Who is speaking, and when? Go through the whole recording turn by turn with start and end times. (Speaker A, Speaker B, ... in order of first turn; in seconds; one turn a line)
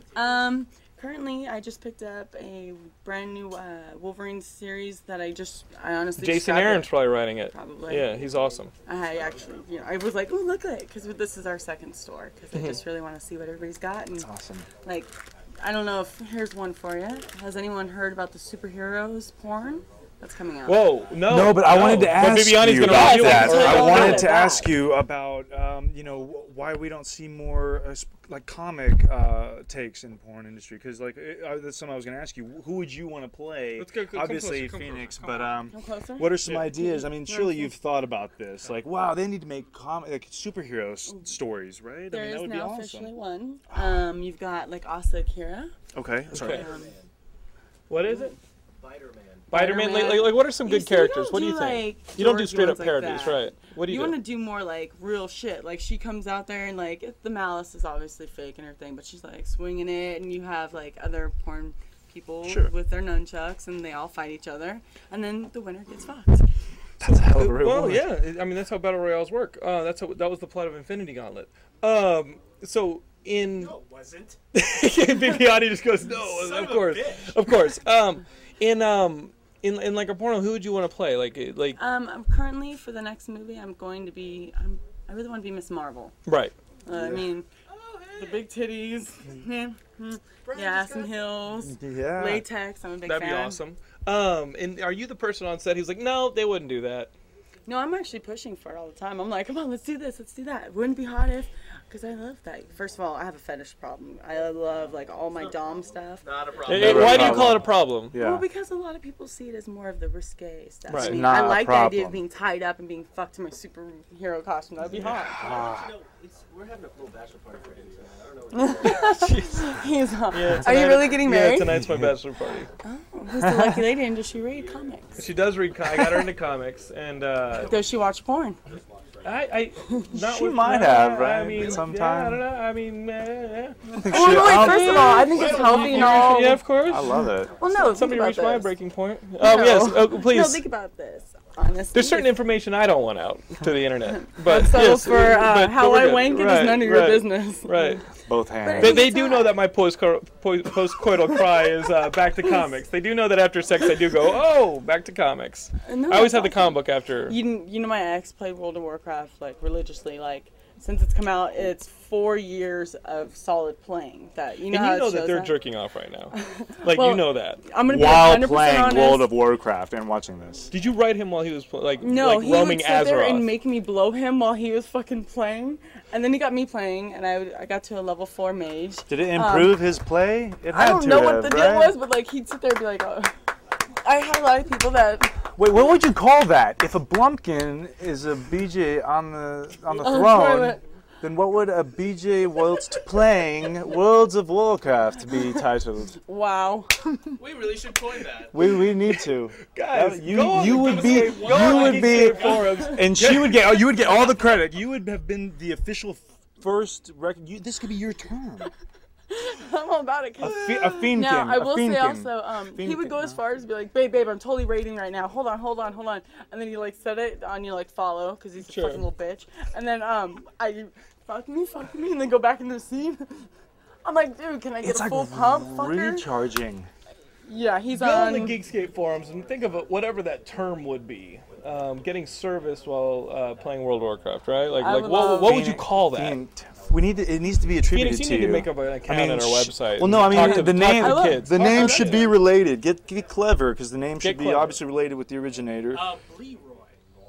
Speaker A: 0.1-0.4
Speaker B: 0.1-8.2
Speaker C: 6.2-8.7
Speaker B: 8.9-14.3
Speaker C: 12.5-12.8
Speaker D: 14.2-14.7
Speaker B: 14.8-21.0
Speaker C: 20.7-24.4
Speaker D: 21.2-43.1
Speaker B: 22.8-24.8
Speaker C: 33.8-35.6
Speaker B: 35.7-37.8
Speaker C: 36.4-36.7
Speaker B: 42.1-45.7
Speaker D: 43.7-44.1
Speaker D: 45.9-46.7
Speaker C: 46.3-46.6
Speaker B: 46.4-46.9
Speaker A: 46.6-47.1
Speaker C: 47.9-48.4
Speaker B: 48.0-48.4
Speaker A: 48.8-49.5
Speaker C: 49.5-54.2
Speaker B: 49.5-66.5
Speaker D: 62.4-62.7
Speaker D: 67.0-68.1
Speaker C: 67.4-73.8
Speaker A: 73.6-74.4
Speaker C: 74.5-81.8
Speaker E: 76.2-77.3
Speaker B: 81.8-86.2
Speaker C: 86.3-86.5
Speaker B: 86.8-87.5
Speaker D: 86.9-87.3
Speaker E: 87.7-88.5
Speaker B: 88.2-93.6
Speaker E: 90.4-91.4
Speaker D: 91.5-92.5
Speaker C: 93.0-97.1
Speaker B: 97.7-106.3
Speaker E: 106.2-107.5
Speaker C: 106.7-108.2
Speaker D: 106.7-108.5
Speaker B: 106.8-107.5
Speaker B: 108.1-115.4
Speaker C: 110.9-111.3
Speaker D: 111.0-112.2
Speaker D: 114.8-116.0
Speaker A: 115.3-119.1
Speaker B: 118.5-121.8
Speaker C: 118.8-119.7
Speaker C: 120.3-122.7
Speaker D: 121.7-122.1
Speaker B: 122.8-125.2
Speaker D: 123.3-123.9
Speaker C: 125.2-127.8
Speaker B: 125.9-126.3
Speaker B: 127.7-128.6
Speaker C: 129.2-137.2
Speaker B: 129.8-130.1
Speaker D: 130.1-132.4
Speaker B: 133.9-136.7
Speaker D: 134.0-135.3
Speaker E: 135.3-136.6
Speaker D: 136.7-137.5
Speaker B: 137.5-138.8
Speaker C: 137.7-140.6
Speaker B: 139.4-142.3
Speaker C: 141.9-148.0
Speaker B: 144.1-148.1
Speaker D: 148.2-149.1
Speaker B: 148.6-149.6
Speaker C: 148.8-157.4
Speaker B: 151.1-151.7
Speaker B: 155.8-165.6
Speaker C: 164.7-167.6
Speaker B: 166.3-169.4
Speaker D: 167.8-170.7
Speaker C: 170.7-173.5
Speaker B: 172.0-179.9
Speaker D: 179.1-182.0
Speaker B: 180.7-183.3
Speaker B: 184.0-185.5
Speaker D: 185.6-196.2
Speaker B: 190.0-190.8
Speaker B: 195.4-195.6
Speaker B: 196.2-196.9
Speaker E: 197.3-198.6
Speaker D: 198.5-208.7
Speaker C: 199.1-203.8
Speaker E: 200.6-202.8
Speaker B: 202.7-203.0
Speaker B: 209.3-223.5
Speaker D: 210.4-213.4
Speaker C: 218.6-219.1
Speaker B: 224.0-226.3
Speaker D: 224.8-226.9
Speaker B: 227.4-228.6
Speaker C: 227.9-236.4
Speaker B: 234.8-235.8
Speaker D: 235.4-246.1
Speaker C: 237.9-242.3
Speaker B: 240.3-242.4
Speaker C: 244.2-244.8
Speaker E: 245.9-246.3
Speaker A: 246.0-246.9